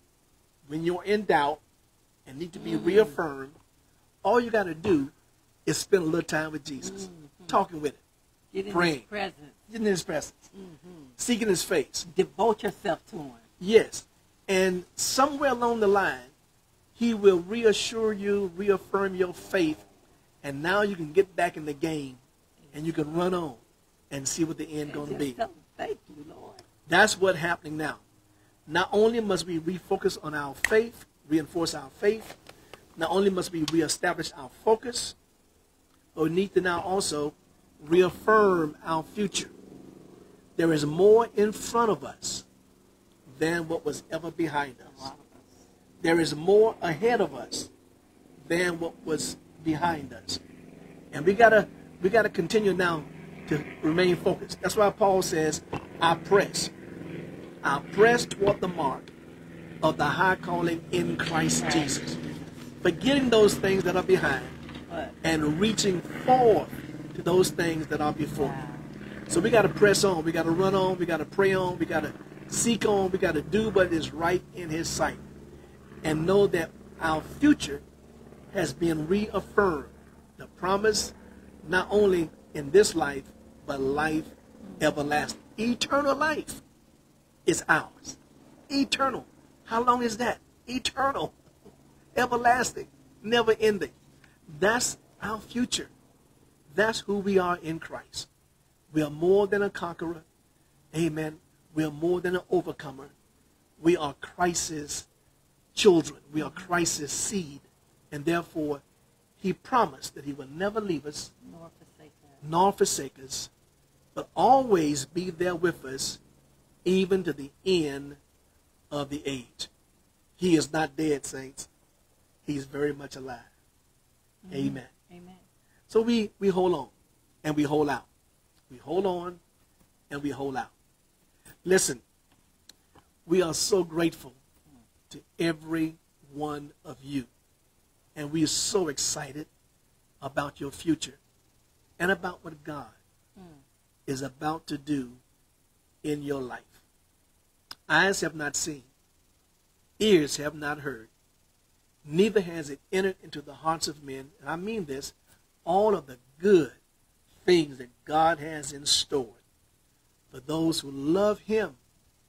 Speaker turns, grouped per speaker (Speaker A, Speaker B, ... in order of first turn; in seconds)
Speaker A: 0.7-1.6, 2.3-3.6, 4.2-5.1, 5.7-8.0, 8.7-9.1, 9.7-10.4, 11.2-12.1, 13.6-16.3, 16.9-19.8, 20.4-22.2, 22.7-25.4, 26.9-28.0, 28.7-32.4, 33.0-35.2, 36.1-39.5, 40.6-42.5, 43.3-45.1, 46.0-47.7, 48.4-50.4, 51.1-56.7, 57.6-59.1, 59.8-62.2, 62.8-64.6, 65.2-68.6, 69.3-75.2, 76.0-77.8, 78.5-86.6, 87.5-88.2, 88.7-91.3, 92.2-93.9, 94.5-95.9, 96.7-98.3, 98.9-100.2, 100.9-103.1, 103.8-105.1, 105.8-108.8, 109.4-111.3, 112.4-113.5, 114.2-116.2, 116.8-118.2, 118.9-119.7, 120.4-121.7, 122.5-123.5, 124.5-124.9, 125.9-126.9, 127.4-128.1, 128.7-129.4, 130.1-130.7, 131.7-132.0, 133.3-134.4, 135.1-137.3, 138.2-139.5, 140.2-141.2, 142.0-143.0, 144.1-145.2, 146.0-146.8, 147.9-148.9, 150.0-151.1, 152.1-155.2, 155.7-156.8, 157.4-159.4, 160.3-161.8
Speaker B: 2.6-3.2, 6.8-7.6, 8.5-9.6, 10.5-11.1, 12.1-13.4, 24.8-26.6, 44.8-45.6, 61.6-62.7, 64.9-65.2, 68.4-68.9, 106.4-106.7, 111.4-112.4, 124.4-125.4